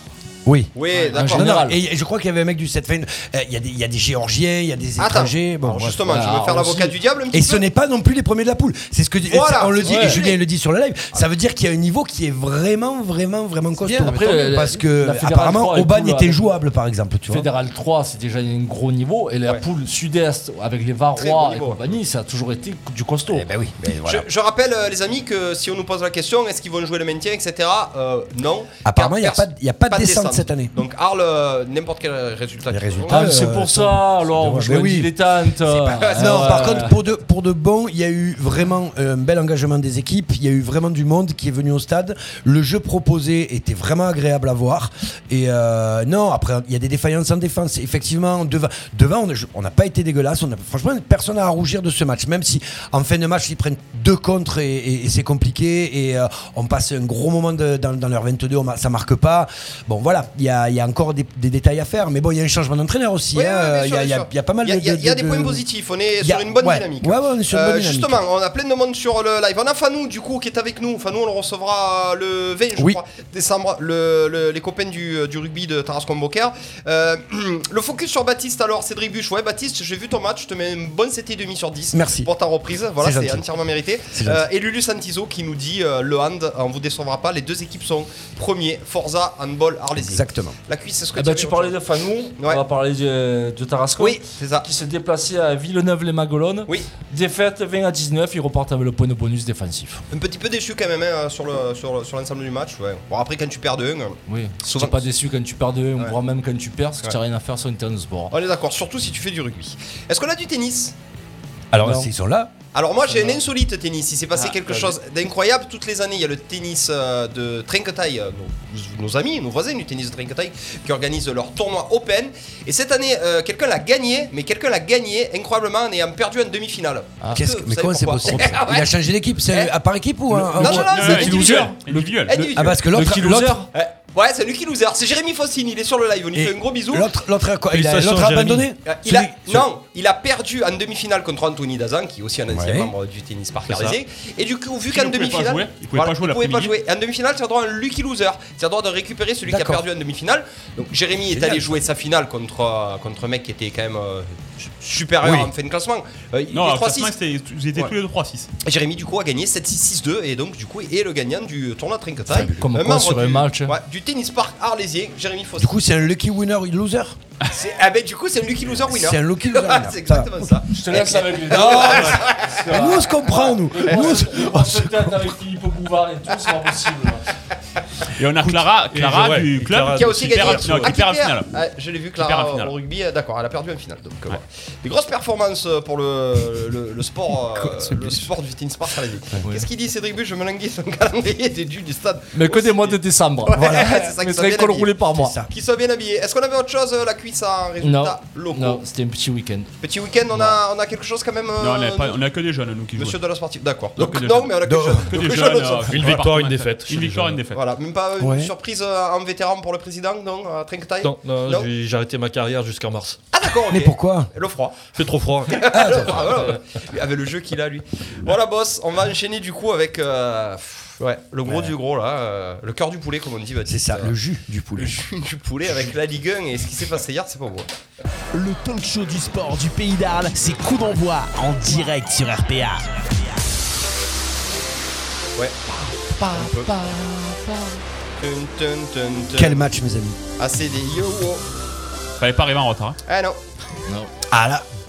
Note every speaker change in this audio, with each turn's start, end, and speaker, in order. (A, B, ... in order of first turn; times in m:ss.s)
0:00.4-0:06.3 A
0:00.7-0:01.7 B
0:01.1-0:01.8 C
0:05.0-0:07.6 B
0:06.0-0:06.9 C
0:07.3-0:17.5 A
0:09.3-0:10.4 B
0:09.8-0:10.2 C
0:13.8-0:14.5 D
0:14.0-0:16.5 C
0:17.3-0:23.5 C
0:21.2-0:22.0 B
0:23.3-0:24.3 A
0:24.0-0:33.4 B
0:28.8-0:30.7 A
0:32.7-1:05.6 A
0:33.1-0:37.0 C
0:35.9-0:36.9 B
1:03.3-1:32.6 B
1:06.2-1:08.2 A
1:21.9-1:22.3 A
1:23.0-1:23.6 A
1:24.1-1:24.4 A
1:30.0-1:30.6 A
1:31.1-1:40.0 C
1:34.0-1:34.6 B
1:40.1-1:45.0 B
1:44.3-1:48.3 C
1:48.3-1:50.9 B
1:51.7-1:52.5 A
1:51.8-1:52.1 C
1:52.7-2:08.9 B
1:54.6-1:54.9 E
2:07.3-2:11.4 A
2:09.5-2:09.7 B
2:10.5-2:12.8 B
2:10.6-2:13.7 C
2:10.6-2:12.5 F
2:12.5-2:13.6 A
2:13.7-2:17.1 B
2:16.3-2:19.7 A
2:17.7-2:18.7 E
2:18.8-2:37.1 B
2:22.5-2:22.9 A
2:23.7-2:24.0 E
2:24.9-2:26.7 F
2:29.4-2:29.8 A
2:35.2-2:35.5 A
2:36.5-2:38.5 F
2:38.6-2:45.8 B
2:42.3-2:42.6 A
2:42.4-2:43.8 C
2:45.6-2:47.2 A
2:47.5-2:52.9 B
2:48.7-2:50.6 A
2:50.7-2:57.3 C
2:51.5-2:55.3 A
2:58.1-3:01.5 F
2:58.9-3:01.0 E
2:59.9-3:18.8 B
3:02.2-3:02.7 F
3:12.3-3:15.3 C
3:13.5-3:14.1 A
3:15.2-3:15.5 A
3:17.8-3:19.7 C
3:19.8-3:22.2 B
3:21.6-3:23.2 F
3:23.0-3:26.1 B
3:24.0-3:27.6 F
3:24.6-3:25.1 A
3:25.8-3:27.4 E
3:27.5-3:31.7 B
3:28.2-3:28.5 A
3:31.0-3:33.2 E
3:33.3-3:34.8 B
3:33.7-3:34.3 A
3:34.9-3:36.3 E
3:35.5-3:44.1 B
3:35.7-3:36.5 A
3:41.4-3:41.7 A
3:43.6-3:45.0 A
3:44.7-3:47.7 B
3:48.3-3:52.8 D
3:55.7-3:57.8 C
3:56.3-3:56.7 B
3:58.2-3:59.6 B
3:59.3-4:00.2 A
4:00.4-4:01.4 B
4:02.2-4:03.0 F
4:03.1-4:03.4 B
4:04.3-4:04.6 A